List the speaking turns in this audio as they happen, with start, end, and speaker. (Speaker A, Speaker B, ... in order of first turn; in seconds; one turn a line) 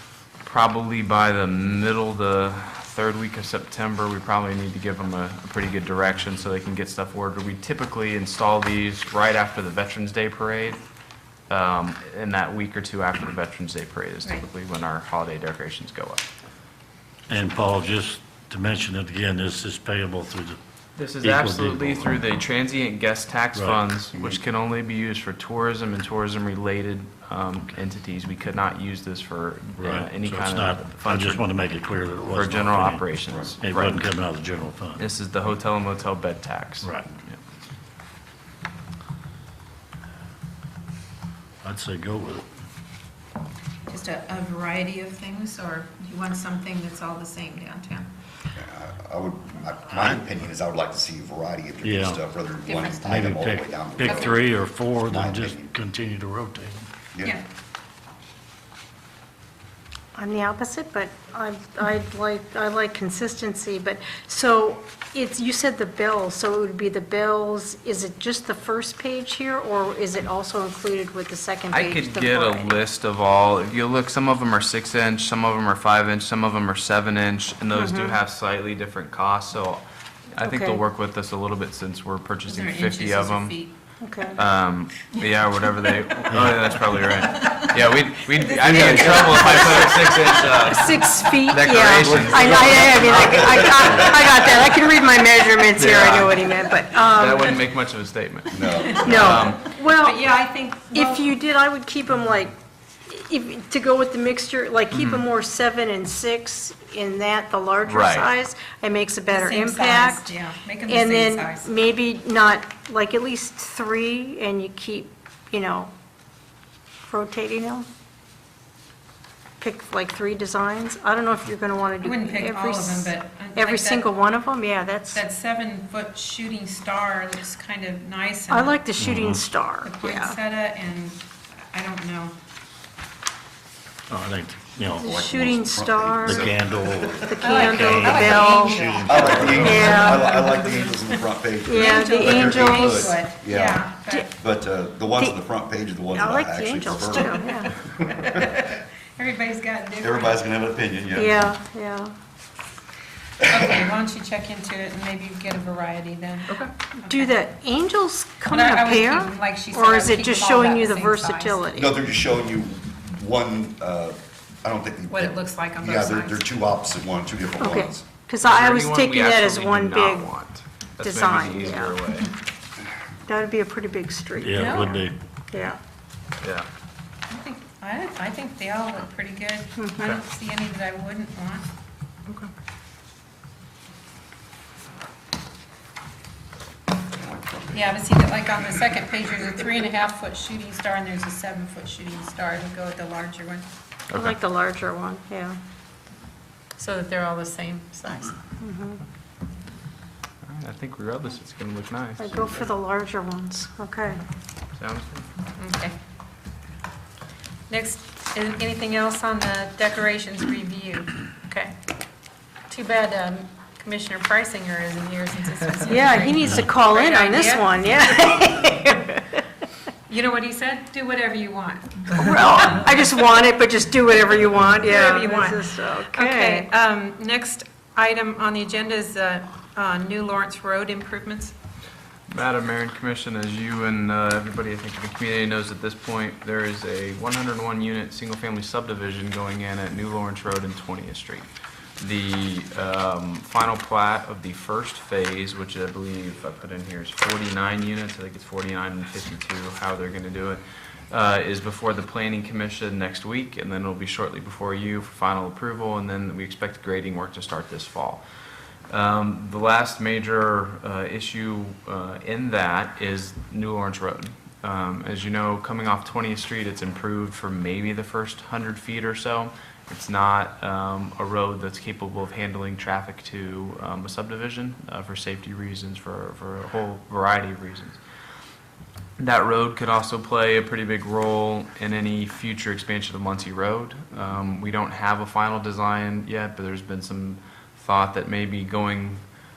Speaker A: 0.4-10.8
Speaker A: 11.5-16.3
Speaker B: 17.3-20.6
Speaker A: 21.0-31.4
Speaker B: 21.2-22.3
Speaker B: 23.5-23.8
Speaker B: 29.8-33.0
Speaker A: 32.3-34.0
Speaker B: 33.6-35.1
Speaker A: 35.0-37.4
Speaker B: 41.6-42.4
Speaker C: 43.9-48.1
Speaker D: 48.5-54.5
Speaker B: 51.8-52.2
Speaker C: 52.7-53.1
Speaker B: 53.0-56.9
Speaker C: 54.1-54.3
Speaker D: 55.1-55.7
Speaker E: 60.1-72.7
Speaker A: 71.7-79.8
Speaker E: 77.7-78.2
Speaker A: 80.3-83.6
Speaker E: 80.4-80.8
Speaker C: 82.5-83.7
Speaker E: 84.0-84.4
Speaker A: 84.3-94.0
Speaker C: 85.2-87.8
Speaker C: 88.4-90.6
Speaker E: 89.3-97.6
Speaker B: 92.0-93.5
Speaker D: 93.2-94.4
Speaker A: 95.8-99.7
Speaker D: 98.5-99.4
Speaker C: 98.7-101.3
Speaker E: 99.0-100.2
Speaker E: 100.9-102.6
Speaker E: 103.1-110.3
Speaker A: 104.9-105.2
Speaker A: 107.8-108.3
Speaker C: 109.3-111.7
Speaker E: 110.8-115.9
Speaker E: 117.0-117.9
Speaker E: 119.6-125.2
Speaker C: 122.0-124.1
Speaker C: 125.1-128.8
Speaker E: 128.5-130.3
Speaker B: 128.9-129.4
Speaker C: 129.8-131.2
Speaker C: 131.7-132.3
Speaker B: 134.1-135.1
Speaker E: 134.9-136.5
Speaker D: 135.0-137.5
Speaker B: 136.2-140.0
Speaker E: 137.2-140.5
Speaker C: 137.4-141.2
Speaker D: 139.0-148.4
Speaker E: 141.6-143.2
Speaker C: 141.7-144.3
Speaker E: 146.1-147.7
Speaker C: 147.1-150.4
Speaker D: 150.0-151.5
Speaker E: 151.1-152.1
Speaker C: 153.4-157.3
Speaker E: 157.0-161.9
Speaker C: 158.4-161.6
Speaker D: 161.7-168.0
Speaker C: 165.1-166.5
Speaker E: 167.6-170.3
Speaker A: 168.4-172.3
Speaker E: 171.0-172.2
Speaker E: 173.2-174.9
Speaker B: 174.3-175.1
Speaker C: 174.5-175.0
Speaker E: 175.5-175.8
Speaker A: 176.4-176.7
Speaker C: 177.3-181.7
Speaker D: 187.1-188.0
Speaker C: 187.7-193.7
Speaker A: 194.1-194.3
Speaker E: 194.1-195.6
Speaker C: 196.8-198.4
Speaker E: 198.6-199.0
Speaker A: 200.4-202.6
Speaker E: 202.2-204.2
Speaker A: 204.7-205.3
Speaker C: 205.6-205.9
Speaker C: 207.7-211.7
Speaker C: 212.7-218.2
Speaker E: 215.8-219.4
Speaker B: 216.4-216.7
Speaker C: 220.1-223.1
Speaker E: 222.1-226.7
Speaker C: 224.8-231.5
Speaker A: 232.3-241.5
Speaker A: 242.0-258.2
Speaker A: 258.9-278.0
Speaker A: 279.2-289.2